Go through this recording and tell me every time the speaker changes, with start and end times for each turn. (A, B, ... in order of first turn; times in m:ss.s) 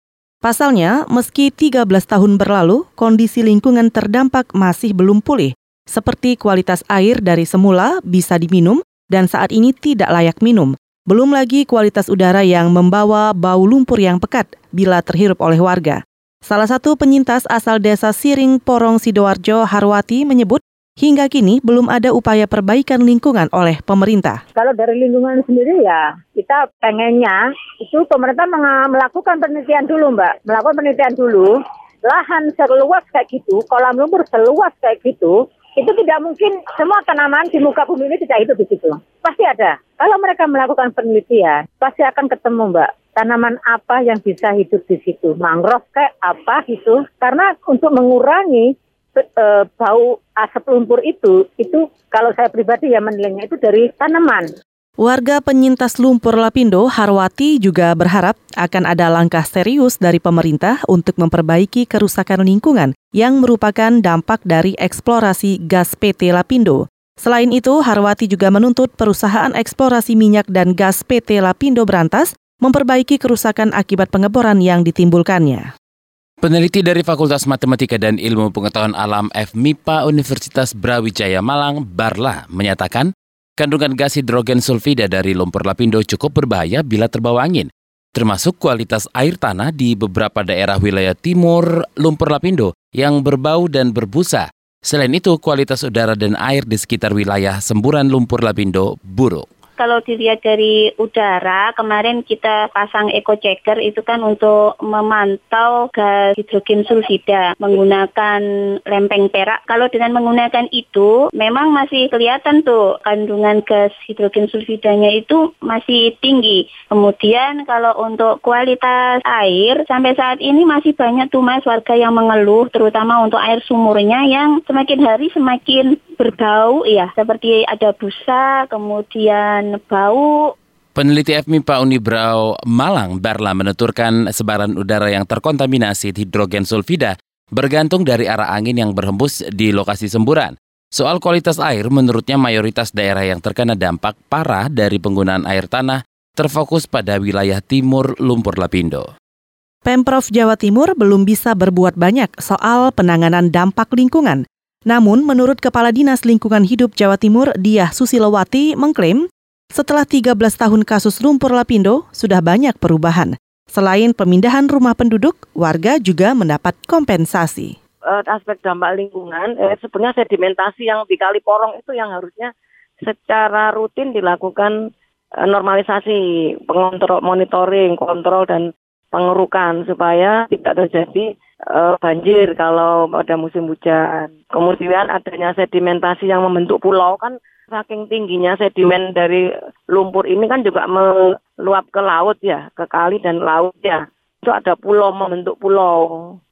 0:00.4-0:24.4 A
0:24.5-0:54.5 B
0:55.0-1:15.6 A
1:16.4-1:39.4 C
1:39.8-2:10.5 D
2:11.0-2:29.0 C
2:29.8-2:39.2 A
2:39.8-2:47.7 A
2:48.0-2:54.8 E
2:55.4-3:16.4 E